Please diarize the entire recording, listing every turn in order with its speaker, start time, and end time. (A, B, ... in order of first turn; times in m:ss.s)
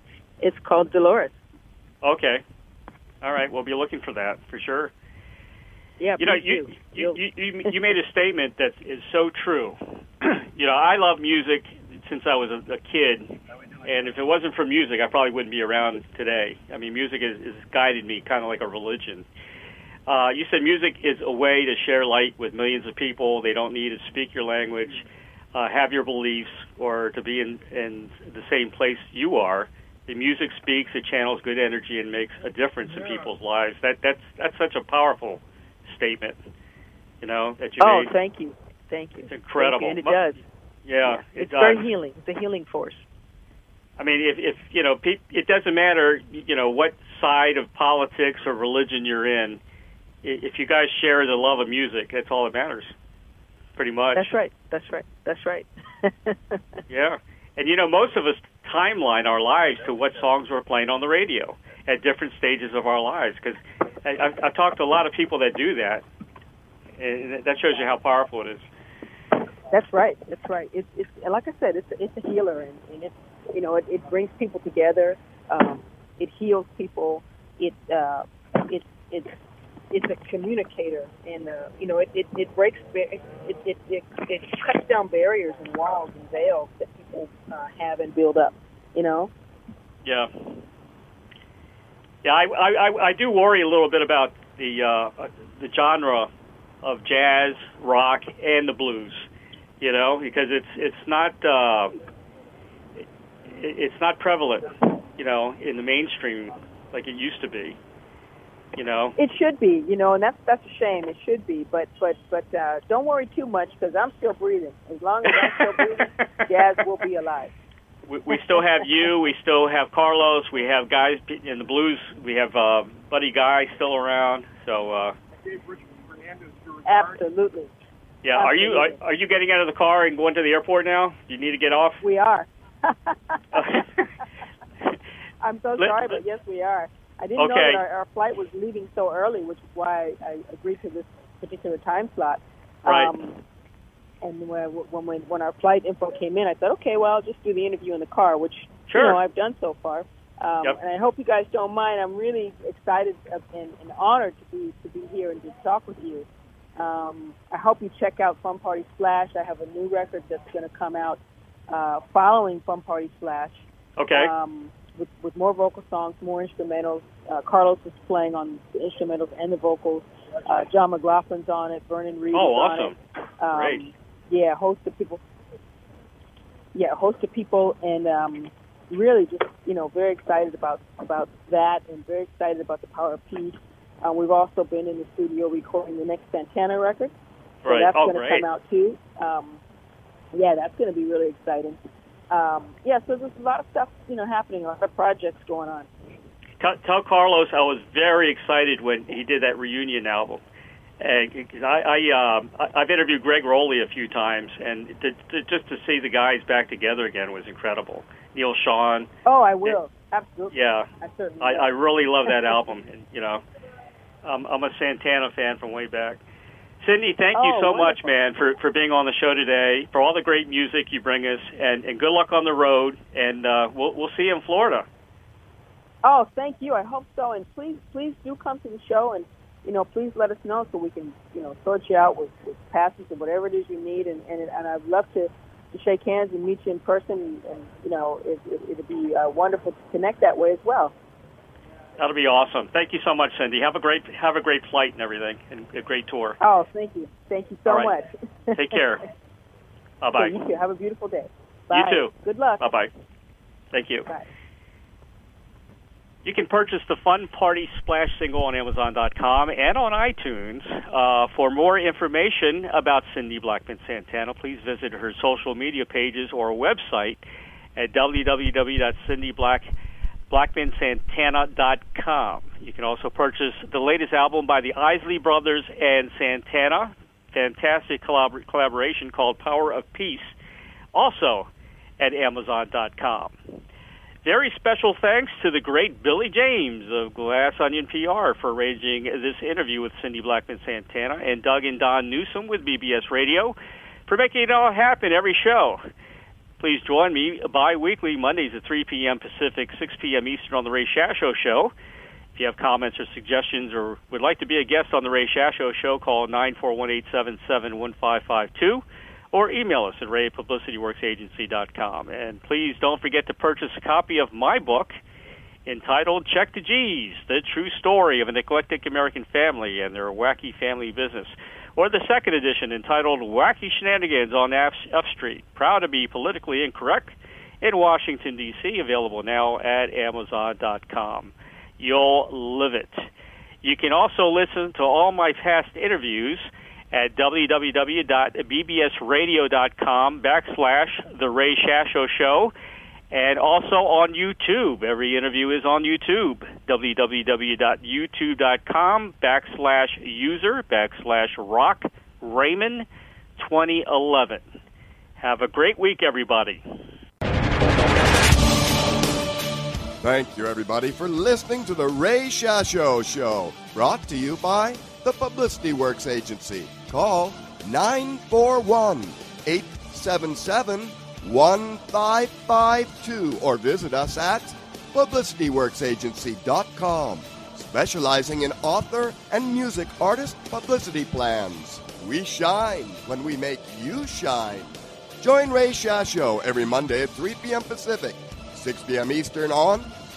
0:00.4-0:01.4 A
0:02.0-0:02.4 B
0:03.2-0:04.9 B
0:06.0-0:07.2 A
0:06.2-0:19.3 B
0:20.1-0:36.4 B
0:37.2-0:38.1 B
0:37.8-0:40.4 A
0:39.3-0:40.2 B
0:40.8-0:41.9 B
0:41.0-0:43.1 A
0:44.0-0:49.6 B
0:50.2-0:53.0 B
0:53.8-0:54.3 B
0:54.2-0:56.8 A
0:56.9-1:06.0 B
1:07.0-1:08.7 B
1:09.7-1:19.4 A
1:19.9-1:29.3 A
1:30.0-1:30.6 B
1:32.2-1:36.3 B
1:36.8-1:39.3 B
1:39.8-1:42.0 B
1:43.0-1:47.8 B
1:48.8-1:49.2 B
1:49.2-1:57.5 A
1:55.3-1:56.7 B
1:58.1-2:05.2 B
1:58.3-1:58.9 A
2:06.8-2:07.7 A
2:08.2-2:12.0 B
2:08.4-2:09.0 A
2:12.0-2:13.9 A
2:13.5-2:14.1 B
2:15.4-2:23.4 A
2:15.8-2:16.2 B
2:17.4-2:17.8 B
2:22.9-2:23.1 B
2:24.2-2:55.2 A
2:28.9-2:29.2 B
2:44.0-2:44.3 B
2:52.3-2:53.0 B
2:53.5-2:53.8 B
2:56.7-3:07.1 A
3:07.6-3:08.5 B
3:07.7-3:09.6 A
3:10.3-3:11.8 A
3:12.3-3:15.9 A
3:16.6-3:20.4 B
3:21.0-3:29.1 B
3:29.2-3:31.7 A
3:30.5-3:30.9 B
3:31.4-3:33.4 B
3:32.3-3:32.5 A
3:34.2-3:36.2 B
3:36.8-3:44.9 B
3:37.3-3:38.1 A
3:46.0-4:01.0 A
4:02.0-4:06.4 B
4:06.4-4:08.8 A
4:07.7-4:08.0 B
4:08.5-4:09.0 B
4:10.0-4:10.3 B
4:10.2-4:12.6 A
4:11.7-4:12.9 B
4:13.7-4:14.1 B
4:16.2-4:27.2 B
4:27.8-4:29.7 B
4:30.3-4:40.4 B
4:40.9-4:41.5 B
4:42.0-4:43.4 B
4:44.2-4:53.6 B
4:54.1-4:55.8 B
4:56.6-5:01.7 B
5:02.4-5:14.9 B
5:15.7-5:33.1 B
5:33.6-5:42.5 B
5:43.1-5:54.4 B
5:55.2-5:56.6 B
6:00.0-6:29.9 C